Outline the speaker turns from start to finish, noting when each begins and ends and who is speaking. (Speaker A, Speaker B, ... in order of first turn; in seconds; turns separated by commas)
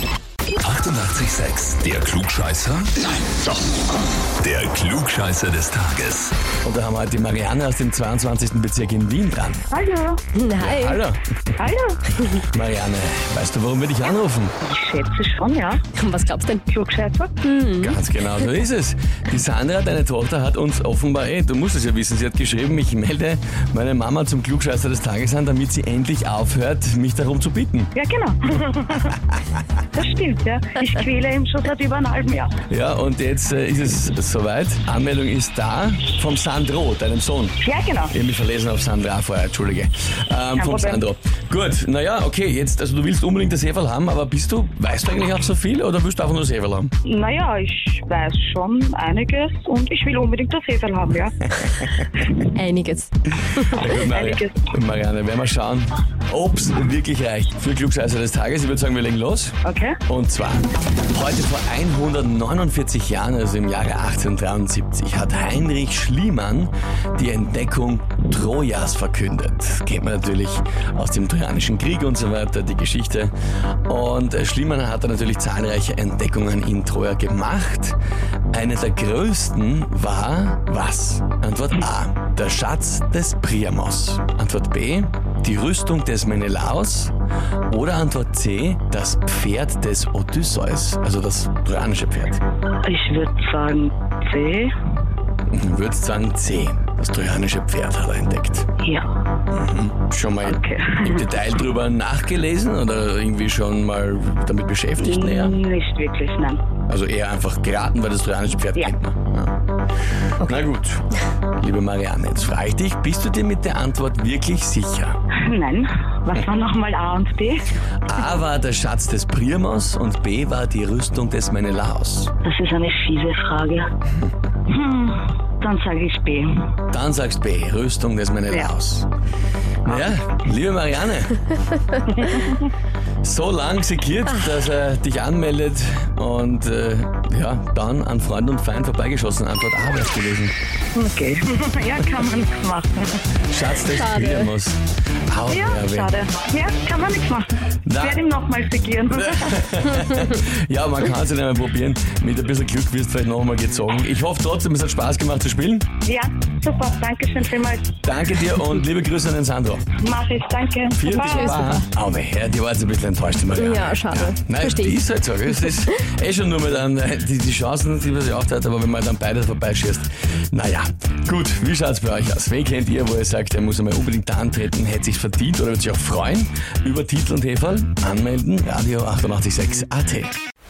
Speaker A: 0.6-3.7, Speaker A: 4.4-6.3, Speaker B: 6.6-9.7, Speaker C: 9.7-10.2, Speaker D: 10.3-11.0, Speaker B: 10.6-11.2, Speaker C: 11.6-12.0, Speaker B: 12.2-14.5, Speaker C: 14.6-15.8, Speaker D: 15.9-16.6, Speaker C: 16.7-17.7, Speaker D: 17.4-18.0, Speaker B: 17.8-27.9, Speaker C: 27.9-29.1, Speaker C: 29.9-32.5, Speaker B: 32.7-46.9, Speaker C: 37.6-38.1, Speaker C: 40.6-41.0, Speaker C: 47.0-51.4, Speaker D: 52.5-54.0, Speaker B: 53.6-73.3, Speaker C: 54.1-54.7, Speaker C: 59.6-60.0, Speaker B: 73.9-78.0, Speaker B: 78.5-87.1, Speaker B: 87.7-92.4, Speaker C: 92.8-94.7, Speaker B: 95.5-98.7, Speaker C: 98.8-99.1, Speaker B: 99.5-105.6, Speaker C: 100.4-101.2, Speaker C: 105.0-106.6, Speaker B: 106.9-109.5, Speaker B: 110.4-111.0, Speaker B: 111.6-115.2, Speaker C: 115.3-117.7, Speaker B: 118.0-122.3, Speaker C: 122.4-123.9, Speaker C: 124.7-126.7, Speaker B: 126.9-129.1, Speaker B: 129.8-131.5, Speaker C: 129.9-130.1, Speaker C: 132.1-132.6, Speaker B: 133.2-140.5, Speaker C: 140.9-143.2, Speaker B: 143.5-146.1, Speaker D: 143.9-144.5, Speaker C: 145.5-147.5, Speaker B: 147.8-148.2, Speaker C: 148.0-149.5, Speaker B: 149.2-155.8, Speaker C: 156.1-157.9, Speaker B: 158.0-159.9, Speaker C: 160.0-161.5, Speaker B: 160.9-180.4, Speaker D: 161.1-161.9, Speaker D: 163.5-165.0